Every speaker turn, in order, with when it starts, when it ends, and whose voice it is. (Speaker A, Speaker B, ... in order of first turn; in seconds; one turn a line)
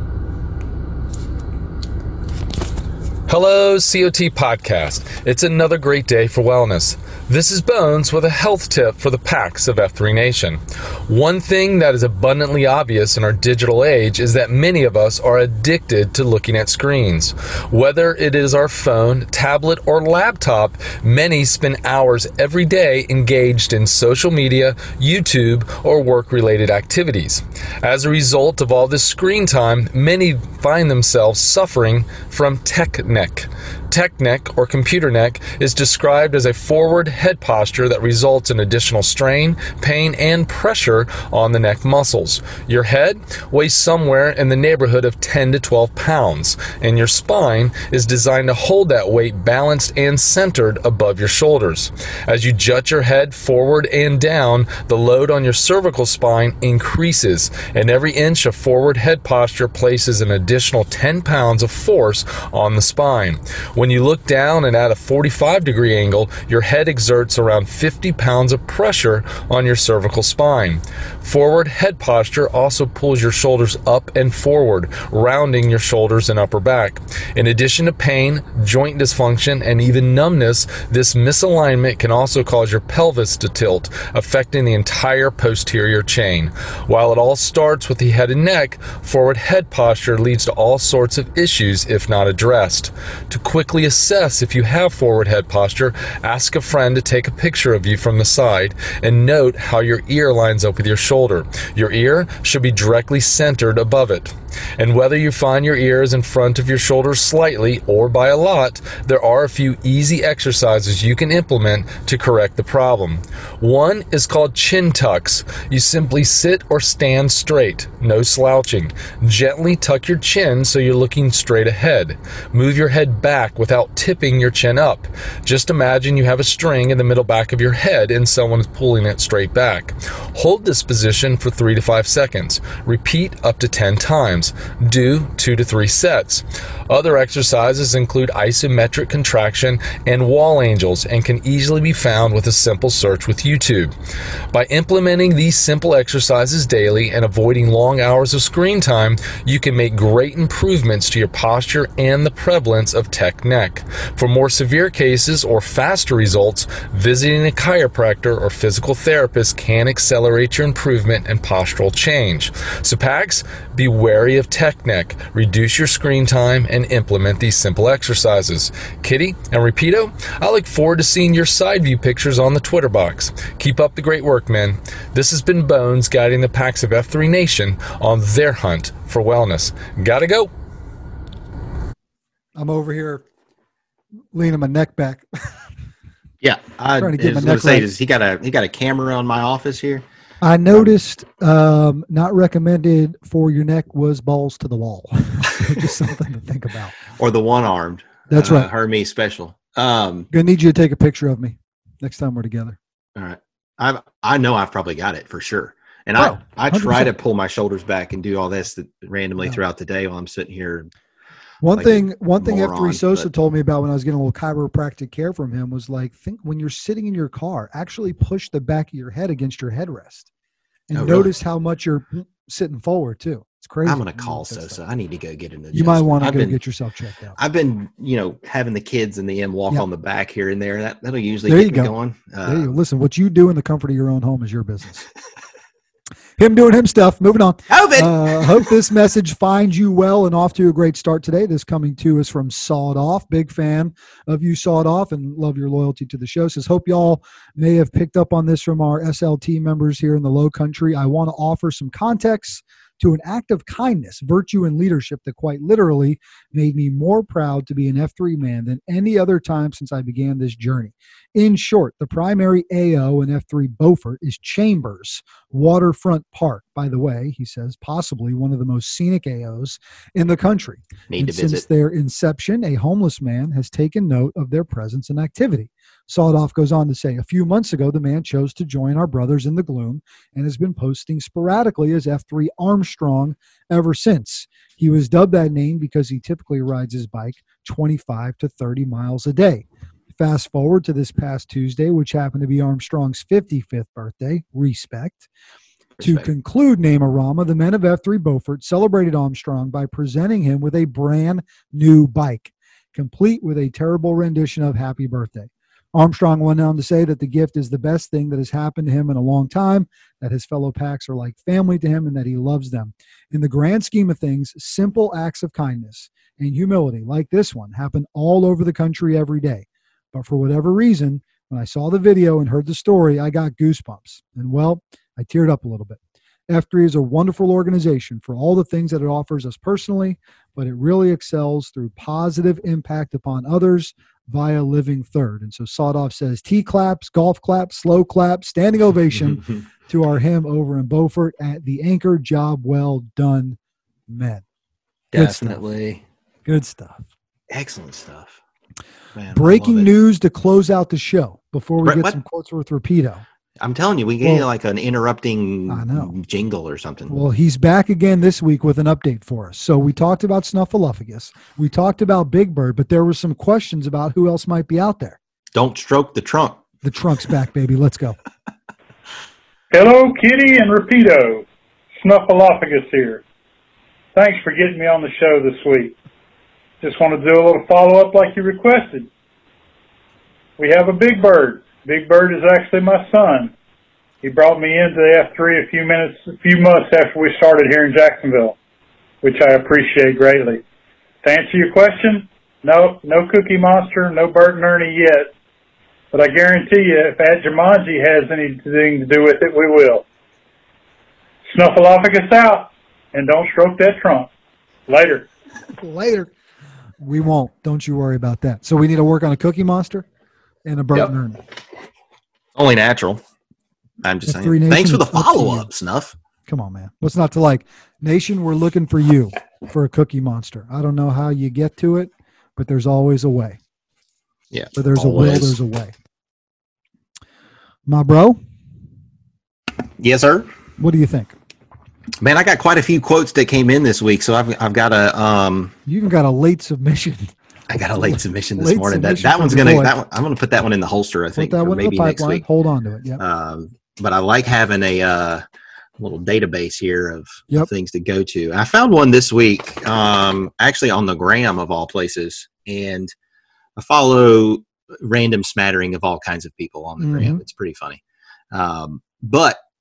Speaker A: 3.3-143.9
Speaker A: 144.5-180.5
Speaker B: 182.6-183.2
Speaker B: 184.3-185.7
Speaker C: 186.4-190.1
Speaker B: 187.0-187.9
Speaker B: 190.4-196.9
Speaker C: 197.2-200.3
Speaker B: 198.3-198.7
Speaker B: 200.3-202.8
Speaker C: 203.2-210.9
Speaker B: 206.2-207.1
Speaker B: 211.6-220.3
Speaker C: 211.7-213.3
Speaker B: 220.9-224.8
Speaker C: 220.9-221.3
Speaker C: 223.8-226.6
Speaker B: 225.7-227.4
Speaker C: 227.4-232.7
Speaker B: 231.5-231.9
Speaker B: 232.4-235.1
Speaker B: 236.4-295.3
Speaker C: 237.7-238.6
Speaker C: 271.1-271.6
Speaker C: 296.0-296.3
Speaker B: 296.0-344.4
Speaker C: 345.1-346.0
Speaker B: 345.1-345.6
Speaker B: 346.4-347.1
Speaker C: 347.5-348.4
Speaker C: 349.2-349.9
Speaker B: 349.3-353.2
Speaker C: 351.8-352.2
Speaker C: 353.6-357.2
Speaker B: 354.2-354.5
Speaker B: 355.7-356.1
Speaker B: 357.1-365.2
Speaker C: 365.5-366.6
Speaker B: 366.8-368.2
Speaker D: 369.7-371.4
Speaker D: 372.0-373.2
Speaker D: 374.1-375.9
Speaker D: 376.8-379.1
Speaker D: 380.6-383.5
Speaker D: 384.2-388.6
Speaker D: 389.2-390.6
Speaker D: 391.2-395.3
Speaker D: 396.1-400.1
Speaker D: 401.5-404.3
Speaker D: 404.9-405.3
Speaker B: 405.8-406.3
Speaker B: 407.0-410.1
Speaker B: 410.6-411.4
Speaker C: 412.6-413.2
Speaker C: 414.0-416.2
Speaker B: 414.3-415.7
Speaker B: 416.5-423.6
Speaker C: 424.5-425.6
Speaker B: 424.8-425.9
Speaker B: 427.9-428.4
Speaker C: 430.0-430.5
Speaker B: 430.8-431.4
Speaker C: 432.2-435.8
Speaker B: 435.9-439.9
Speaker C: 437.7-442.4
Speaker B: 441.4-443.2
Speaker C: 443.2-445.4
Speaker C: 446.0-453.1
Speaker C: 453.8-459.6
Speaker B: 457.0-457.4